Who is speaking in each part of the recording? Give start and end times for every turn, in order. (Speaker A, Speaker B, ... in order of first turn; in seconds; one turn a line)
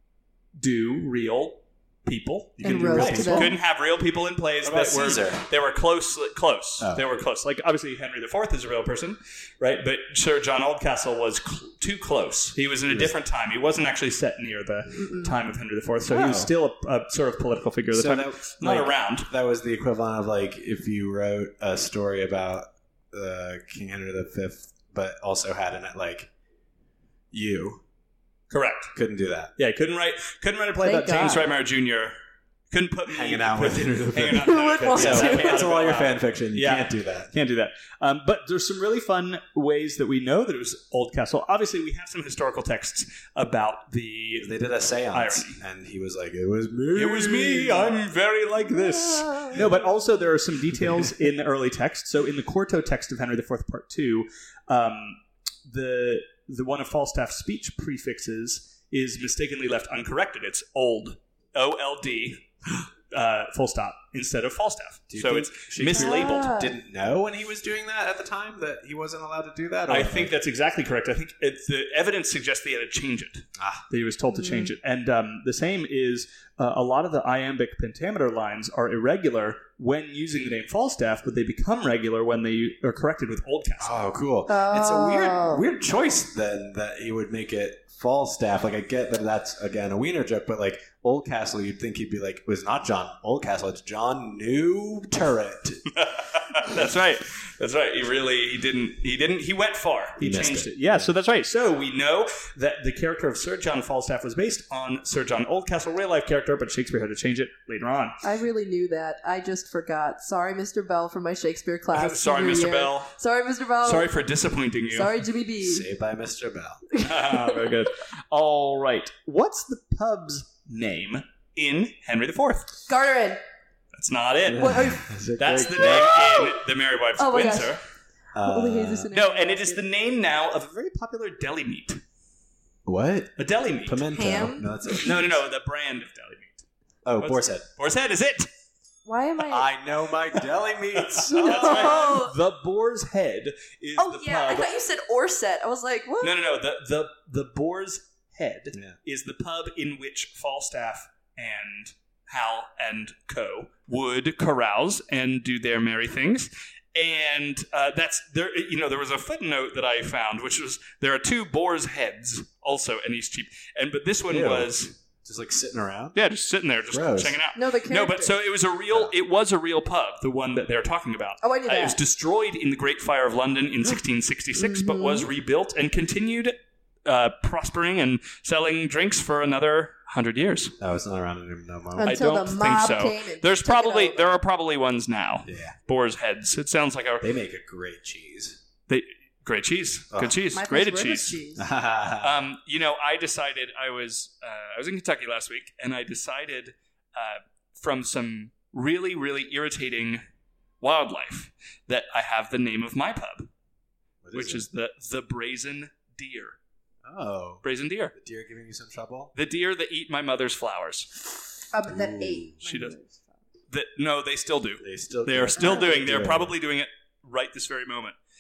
Speaker A: 0.6-19.3
Speaker B: 2.6-3.5
Speaker C: 2.6-3.6
Speaker C: 4.6-5.4
Speaker B: 15.0-15.3
Speaker C: 16.1-16.5
Speaker C: 17.9-26.3
Speaker C: 27.3-27.8
Speaker A: 28.5-28.9
Speaker C: 28.9-29.5
Speaker A: 29.6-32.1
Speaker B: 30.8-31.5
Speaker A: 32.7-44.5
Speaker C: 33.1-37.3
Speaker B: 34.4-35.6
Speaker C: 44.4-48.0
Speaker A: 45.1-45.6
Speaker A: 47.0-66.5
Speaker B: 48.8-49.6
Speaker C: 50.8-51.1
Speaker C: 65.1-70.3
Speaker B: 65.9-66.7
Speaker A: 69.9-84.0
Speaker C: 73.6-73.8
Speaker B: 74.3-74.7
Speaker C: 83.8-95.8
Speaker B: 84.5-85.6
Speaker A: 95.9-108.2
Speaker C: 100.2-101.1
Speaker B: 108.2-114.1
Speaker A: 111.9-113.1
Speaker A: 113.8-115.2
Speaker B: 114.9-115.9
Speaker C: 115.6-116.8
Speaker B: 116.9-117.7
Speaker A: 117.0-122.7
Speaker B: 122.9-123.4
Speaker A: 123.9-127.8
Speaker C: 124.5-126.5
Speaker B: 124.6-125.1
Speaker B: 125.8-126.6
Speaker B: 127.2-127.8
Speaker C: 128.3-129.1
Speaker B: 128.4-129.8
Speaker A: 129.1-132.0
Speaker C: 132.9-133.3
Speaker A: 133.4-134.1
Speaker C: 133.9-135.4
Speaker B: 134.1-135.0
Speaker A: 135.0-136.6
Speaker C: 137.1-137.7
Speaker A: 137.2-138.5
Speaker B: 139.1-139.7
Speaker C: 139.4-142.0
Speaker A: 141.0-144.7
Speaker B: 141.3-142.4
Speaker B: 144.0-146.4
Speaker A: 146.2-164.9
Speaker C: 148.7-149.0
Speaker C: 164.3-164.7
Speaker C: 165.2-166.2
Speaker A: 166.2-180.8
Speaker C: 166.9-167.4
Speaker B: 167.6-168.4
Speaker B: 171.4-172.0
Speaker B: 174.6-175.3
Speaker C: 180.8-182.2
Speaker B: 182.0-184.4
Speaker A: 182.1-187.3
Speaker C: 185.5-185.8
Speaker C: 187.2-188.6
Speaker A: 188.9-191.4
Speaker C: 190.1-190.4
Speaker B: 190.5-191.7
Speaker C: 191.6-192.4
Speaker A: 192.2-200.2
Speaker A: 200.8-203.5
Speaker C: 204.2-204.7
Speaker A: 204.3-206.6
Speaker C: 207.1-209.3
Speaker A: 207.6-208.1
Speaker A: 209.3-211.3
Speaker B: 211.7-213.4
Speaker C: 211.9-212.6
Speaker A: 212.7-213.0
Speaker A: 213.7-218.2
Speaker C: 214.8-216.5
Speaker B: 215.6-215.9